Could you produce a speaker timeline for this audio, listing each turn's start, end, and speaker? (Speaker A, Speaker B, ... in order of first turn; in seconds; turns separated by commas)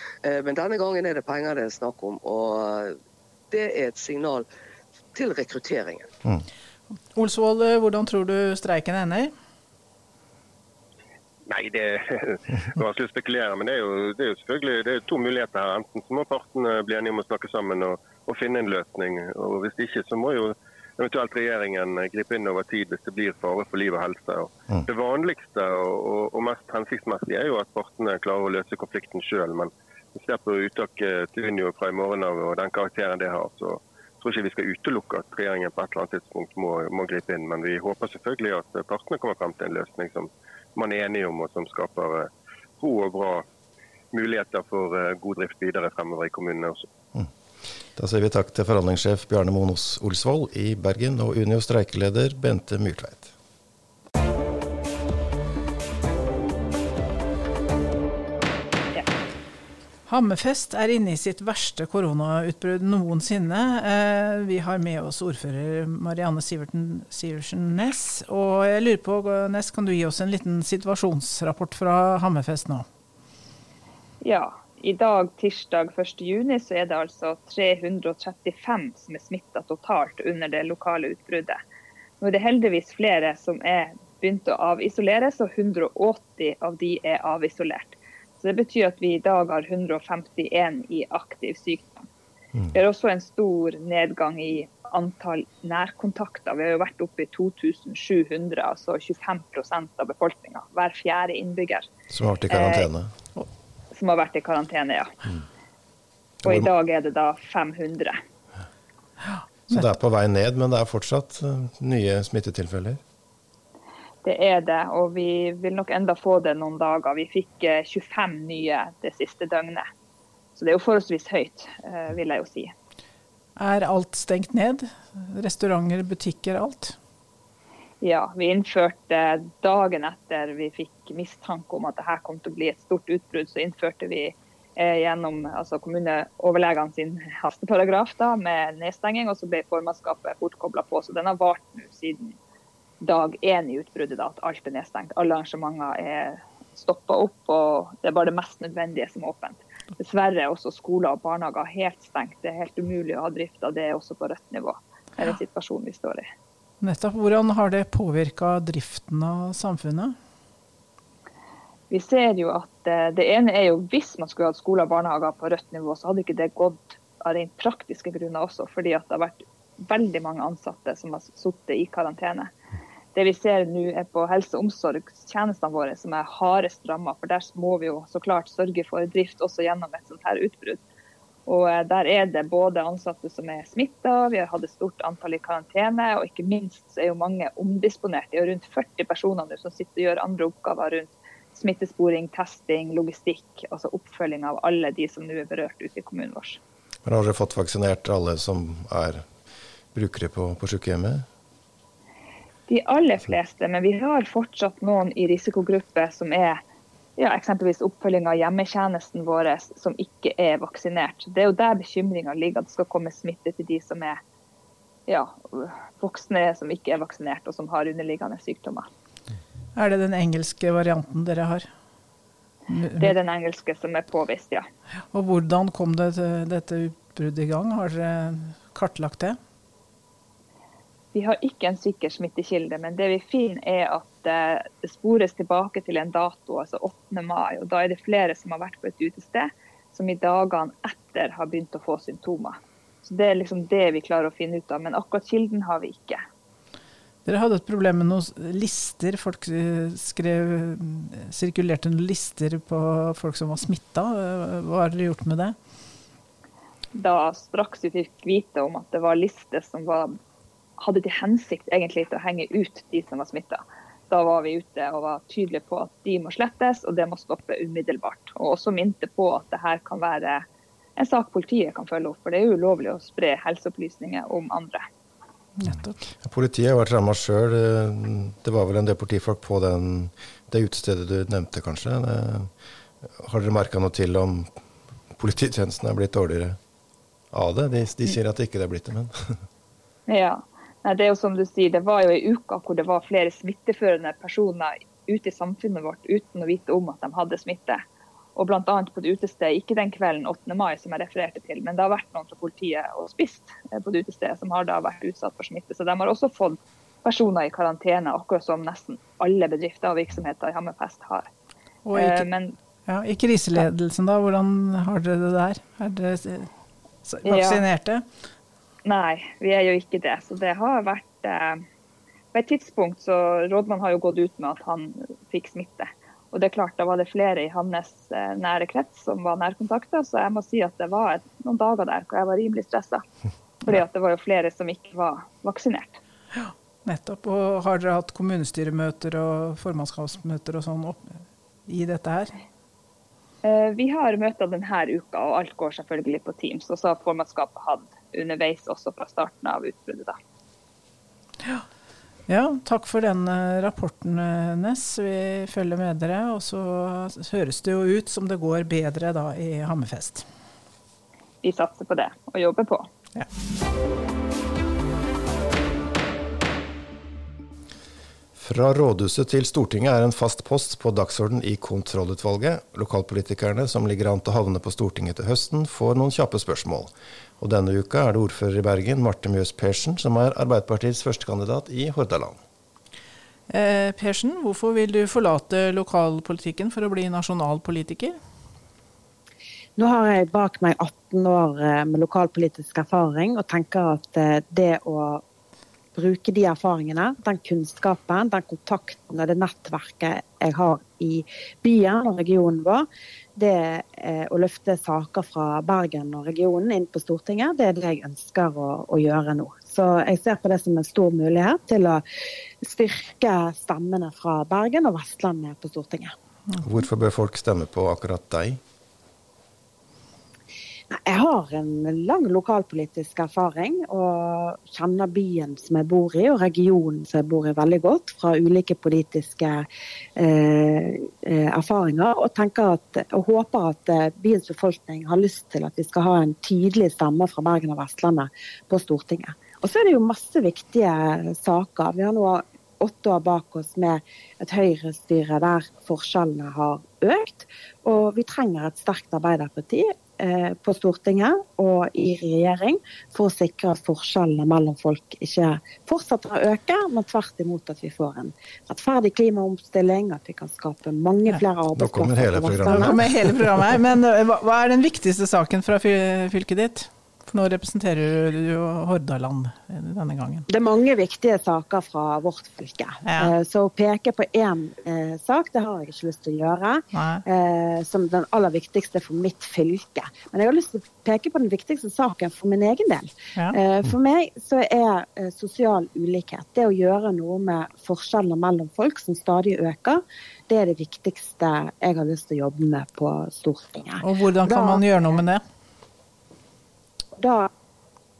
Speaker A: 0.2-3.0, Speaker A: 3.5-4.4, Speaker A: 5.1-6.1, Speaker B: 7.1-9.3, Speaker C: 11.4-43.4, Speaker C: 44.1-46.9, Speaker D: 48.0-53.3, Speaker B: 60.1-72.8, Speaker E: 74.2-81.6, Speaker E: 82.2-92.1, Speaker E: 92.7-101.9, Speaker D: 102.1-103.1, Speaker E: 102.5-102.9, Speaker E: 103.9-105.2, Speaker D: 106.4-106.7, Speaker E: 106.4-108.2, Speaker B: 109.3-109.8, Speaker D: 109.7-113.0, Speaker E: 114.2-119.9, Speaker E: 120.5-122.7, Speaker B: 123.6-127.0, Speaker E: 128.0-142.4, Speaker E: 143.0-156.3, Speaker B: 156.8-160.2, Speaker E: 161.9-172.5, Speaker E: 173.1-180.8, Speaker E: 181.4-196.6, Speaker D: 197.0-199.2, Speaker D: 199.9-201.2, Speaker E: 202.7-206.6, Speaker E: 207.2-214.2, Speaker E: 215.1-218.9, Speaker B: 219.7-221.7, Speaker B: 222.7-223.1, Speaker E: 223.0-224.7, Speaker B: 225.1-229.4, Speaker E: 231.1-246.2, Speaker B: 247.2-255.6, Speaker E: 256.9-260.2, Speaker E: 260.8-270.4, Speaker E: 271.0-274.9, Speaker B: 275.6-276.1, Speaker D: 276.2-282.5, Speaker D: 283.1-284.5, Speaker D: 285.1-286.6, Speaker D: 287.3-289.4, Speaker E: 290.1-297.8, Speaker E: 298.4-311.3, Speaker B: 311.9-312.3, Speaker E: 311.9-312.6, Speaker B: 312.9-316.5, Speaker B: 317.0-318.0, Speaker E: 317.2-317.6, Speaker E: 318.8-321.6, Speaker E: 322.3-333.0, Speaker E: 333.6-336.0, Speaker B: 336.3-342.3, Speaker E: 343.4-350.2, Speaker B: 352.3-360.2, Speaker E: 361.4-362.9, Speaker D: 368.4-382.4, Speaker B: 383.5-388.2, Speaker F: 389.8-395.2, Speaker F: 395.9-412.0, Speaker F: 412.6-416.1, Speaker D: 416.6-418.6, Speaker F: 420.9-429.6, Speaker F: 430.2-463.0, Speaker D: 461.7-463.6, Speaker B: 462.6-470.4, Speaker F: 470.5-495.0, Speaker B: 473.0-473.3, Speaker B: 476.9-477.2, Speaker B: 494.0-495.4, Speaker F: 497.2-497.5